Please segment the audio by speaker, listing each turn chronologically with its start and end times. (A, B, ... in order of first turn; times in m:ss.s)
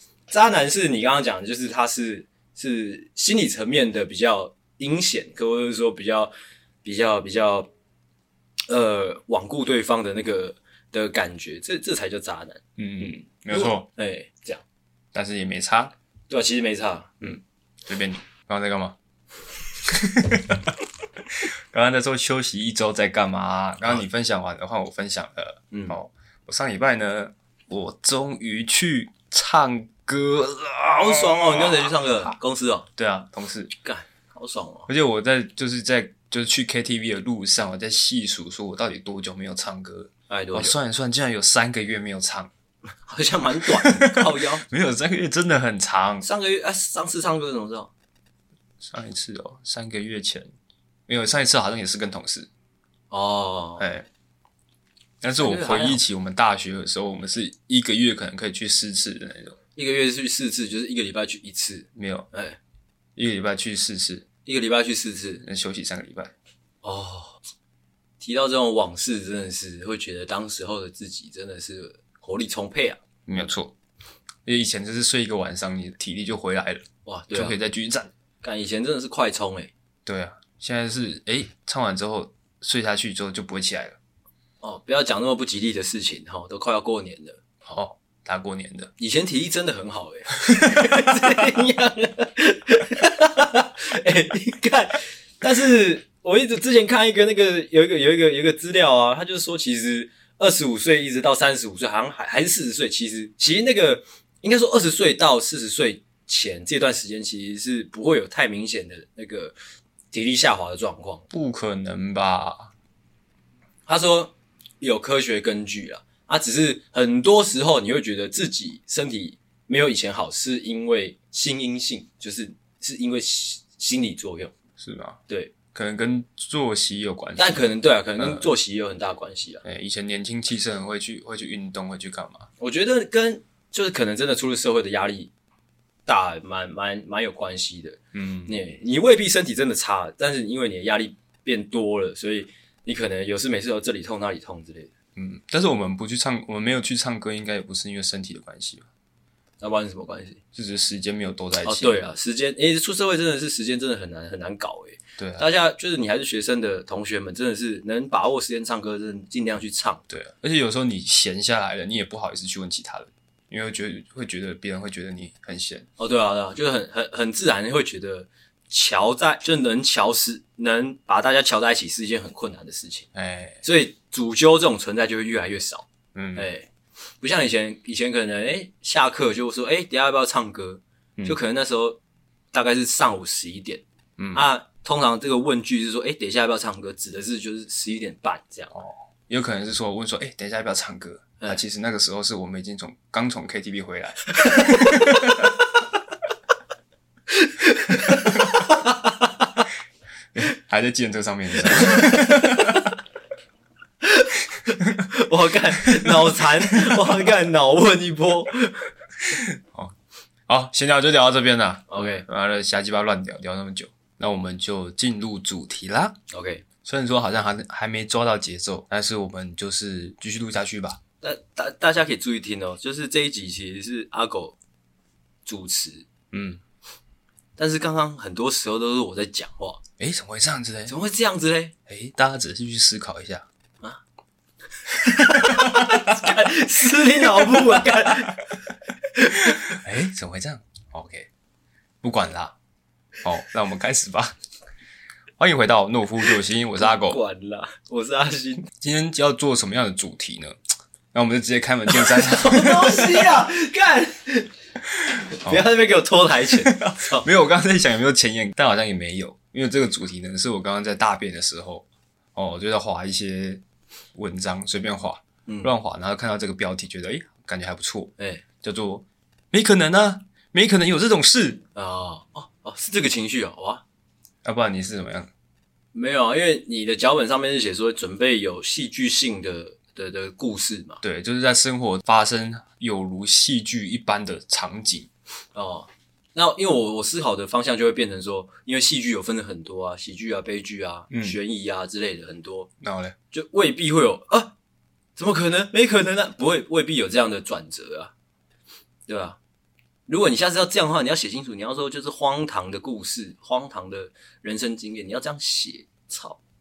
0:00.3-0:06.3 A
0:06.8-0:07.7 A
0:08.7-0:14.6 A
0:12.8-0:13.9 B
0:15.1-0:15.9 B
0:16.3-0:17.4 A
0:17.2-0:19.0 B
0:19.8-0:20.7 B
0:21.3-0:32.3 B
0:25.7-0:26.0 A
0:30.9-0:32.9 A
0:33.0-0:33.7 B
0:33.8-0:34.9 A
0:34.9-0:42.5 B
0:40.3-0:40.8 A
0:43.1-0:44.6 A
0:43.6-0:46.2 B
0:46.2-0:47.9 A
0:48.8-0:50.5 B
0:51.1-0:52.5 B
0:53.1-0:53.8 A
0:53.8-0:54.1 B
0:55.2-0:59.6 B
0:55.4-0:56.0 A
0:59.8-1:02.6 A
1:01.9-1:02.3 B
1:03.2-1:04.2 B
1:04.4-1:05.4 A
1:05.4-1:06.3 B
1:06.8-1:07.4 A
1:08.2-1:13.0 A
1:13.2-1:13.7 B
1:14.4-1:18.1 B
1:17.0-1:17.6 A
1:18.4-1:19.7 A
1:20.0-1:24.0 B
1:24.6-1:27.4 A
1:27.6-1:28.9 B
1:29.0-1:49.5 A
1:30.4-1:31.3 B
1:50.1-1:51.2 A
1:51.3-1:52.7 B
1:53.8-2:04.5 A
2:04.8-2:05.2 B
2:05.3-2:05.5 A
2:05.7-2:07.7 B
2:07.4-2:09.6 A
2:08.2-2:08.5 B
2:09.6-2:12.4 B
2:12.6-2:15.3 A
2:16.1-2:24.9 A
2:18.1-2:18.5 B
2:25.2-2:28.9 B
2:29.6-2:30.4 A
2:30.5-2:32.0 B
2:31.6-2:40.0 A
2:35.2-2:35.4 B
2:40.1-2:45.8 B
2:46.0-2:53.1 A
2:53.1-2:53.6 B
2:53.6-2:56.7 A
2:56.1-2:56.5 B
2:57.2-3:02.0 A
3:02.5-3:03.8 A
3:04.2-3:04.4 B
3:04.3-3:08.7 A
3:08.7-3:15.4 B
3:14.5-3:15.3 A
3:17.3-3:19.6 A
3:20.3-3:22.9 B
3:21.8-3:22.5 A
3:24.0-3:28.9 A
3:25.9-3:27.1 B
3:29.3-3:29.9 B
3:30.5-3:36.2 B
3:31.9-3:32.2 A
3:36.3-3:36.6 A
3:36.8-3:41.0 B
3:41.2-3:44.6 A
3:45.4-3:46.0 A
3:46.3-3:46.6 B
3:47.6-3:49.8 A
3:50.0-3:50.9 B
3:50.9-3:51.7 A
3:51.9-3:53.4 B
3:54.8-3:58.5 A
3:55.4-3:56.4 B
3:57.4-3:57.9 B
3:59.1-3:59.8 A
3:59.6-4:01.3 B
4:02.0-4:02.6 B
4:03.2-4:04.4 B
4:05.4-4:07.2 B
4:06.8-4:08.7 A
4:08.8-4:10.6 B
4:11.1-4:13.4 B
4:11.9-4:14.5 A
4:14.9-4:15.6 B
4:15.3-4:17.3 A
4:16.5-4:23.6 B
4:24.1-4:31.6 B
4:25.5-4:25.7 A
4:28.2-4:28.4 A
4:31.7-4:33.8 A
4:34.4-4:35.3 B
4:35.9-4:41.0 A
4:41.0-4:45.1 B
4:45.5-4:52.7 A
4:51.1-4:51.4 B
4:52.8-4:53.2 B
4:53.3-4:54.5 A
4:55.2-4:58.1 A
4:59.1-4:59.4 A
5:00.1-5:06.4 A